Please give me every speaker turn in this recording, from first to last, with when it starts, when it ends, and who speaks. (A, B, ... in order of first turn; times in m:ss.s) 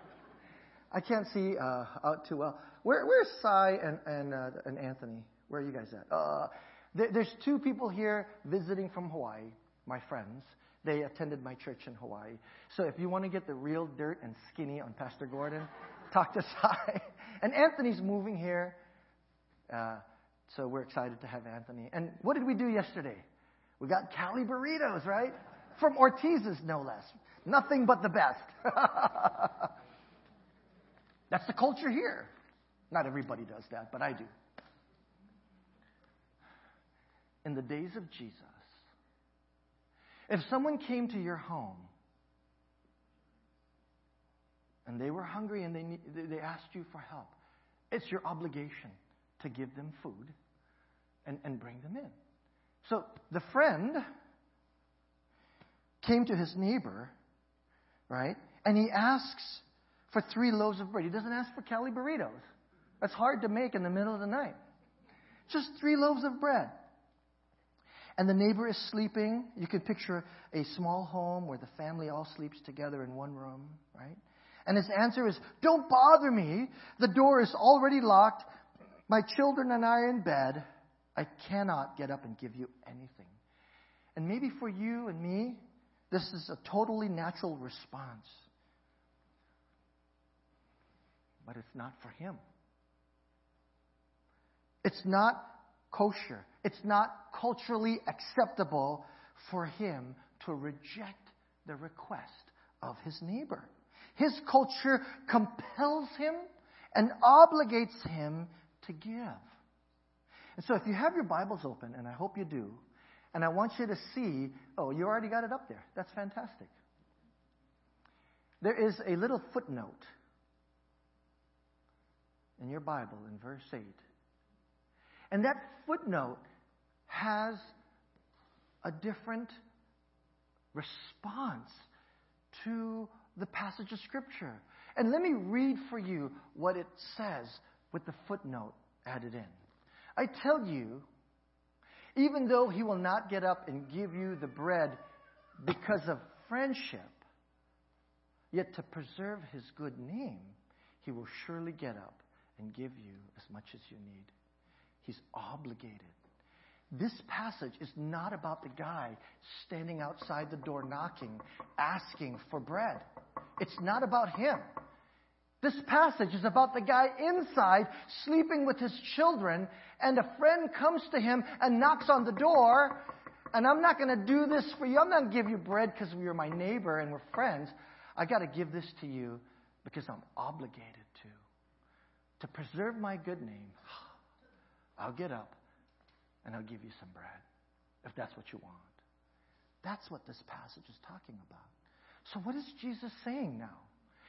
0:00.9-0:18.8 A
0:19.7-0:23.2 A
0:23.8-0:29.7 A
0:31.3-0:32.3 A
0:32.9-0:34.3 A
0:37.4-0:38.6 A
0:40.3-0:41.9 A
0:44.8-0:47.4 A
0:47.9-0:50.4 A
0:51.2-0:52.1 A
0:52.8-0:54.0 A
0:56.0-0:57.2 A
0:58.1-1:02.4 A
1:03.0-1:04.6 A
1:05.5-1:06.8 A
1:08.2-1:18.5 A
1:19.1-1:23.4 A
1:24.2-1:28.5 A
1:31.4-1:32.4 A
1:34.8-1:49.4 A
1:50.6-1:52.8 A
1:53.3-1:56.7 A
1:58.6-2:00.1 A
2:02.6-2:04.0 A
2:05.3-2:06.4 A
2:07.1-2:07.7 A
2:08.8-2:09.6 A
2:10.7-2:11.8 A
2:12.5-2:19.6 A
2:20.2-2:21.1 A
2:22.2-2:25.0 A
2:25.6-2:27.2 A
2:28.5-2:34.3 A
2:35.0-2:36.1 A
2:36.9-2:43.0 A
2:43.6-2:44.6 A
2:45.6-3:01.4 A
3:02.4-3:04.1 A
3:05.0-3:05.6 A
3:06.4-3:07.4 A
3:08.0-3:09.0 A
3:09.8-3:11.7 A
3:12.2-3:13.9 A